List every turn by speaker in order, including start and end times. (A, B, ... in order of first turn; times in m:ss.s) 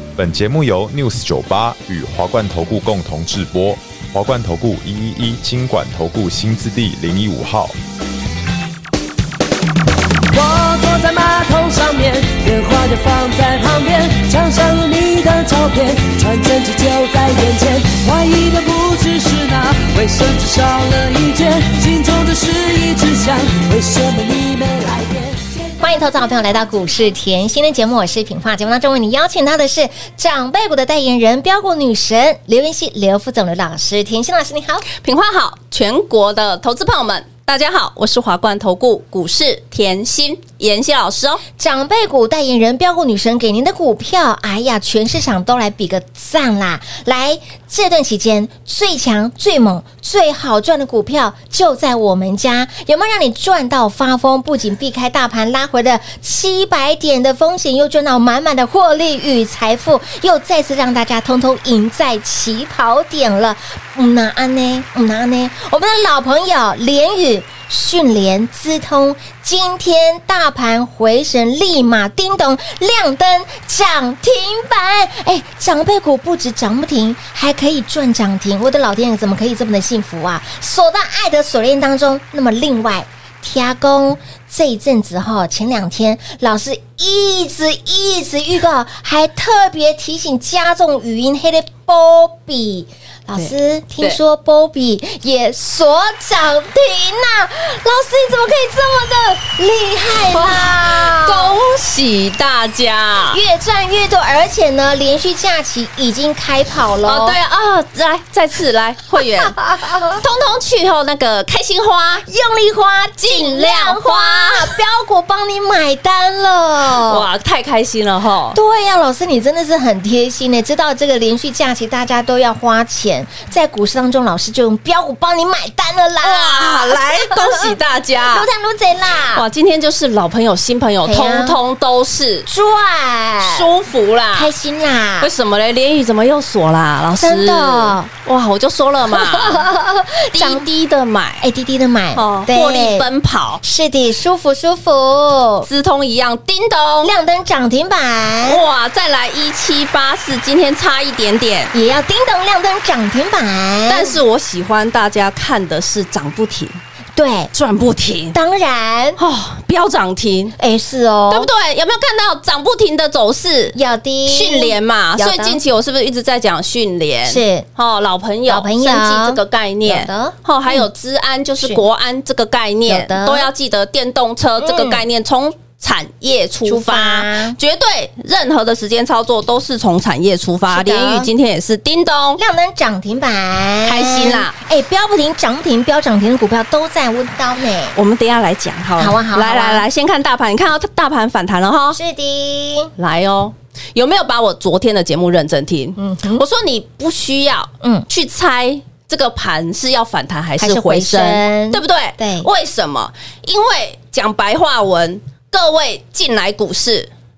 0:00.2-0:07.8 A
0:10.3-0:25.5 B
0:25.8-0:34.8 C
0:35.0-0:41.4 D
0:41.6-1:41.6 C
1:33.3-1:34.2 D
1:40.2-1:43.4 D
1:43.3-1:47.4 C
1:47.0-1:52.2 D
1:49.1-1:50.2 C
1:52.2-1:57.3 C
1:53.2-1:54.7 D
1:57.0-1:58.6 D
1:58.5-2:07.7 C
2:06.2-2:08.5 D
2:08.3-2:09.4 C
2:09.3-2:12.5 D
2:11.0-2:11.6 C
2:12.5-2:13.7 C
2:13.4-2:14.5 D
2:14.3-2:15.3 C
2:15.2-2:19.7 D
2:17.2-2:18.1 C
2:19.1-2:20.6 C
2:20.3-2:21.5 D
2:21.4-2:23.1 C
2:22.1-2:23.6 D
2:23.6-2:25.7 C
2:25.6-2:27.1 D
2:27.0-2:28.6 C
2:28.4-2:31.7 D
2:31.7-2:34.2 C
2:33.9-2:36.8 D
2:37.1-2:37.5 C
2:37.5-2:38.4 D
2:38.3-2:39.2 C
2:39.2-2:40.6 D
2:40.6-2:41.5 C
2:41.3-3:02.4 D
2:43.7-2:45.6 C
2:47.2-2:47.7 C
2:48.5-2:50.8 C
2:52.9-2:53.5 C
2:54.6-2:55.0 C
2:56.6-2:57.6 C
3:00.7-3:01.3 C
3:02.4-3:08.0 C
3:03.8-3:04.5 D
3:07.9-3:12.0 D
3:09.0-3:09.8 C
3:11.9-3:12.9 C
3:13.0-3:27.1 D
3:16.0-3:16.4 C
3:17.8-3:18.1 C
3:20.6-3:22.5 C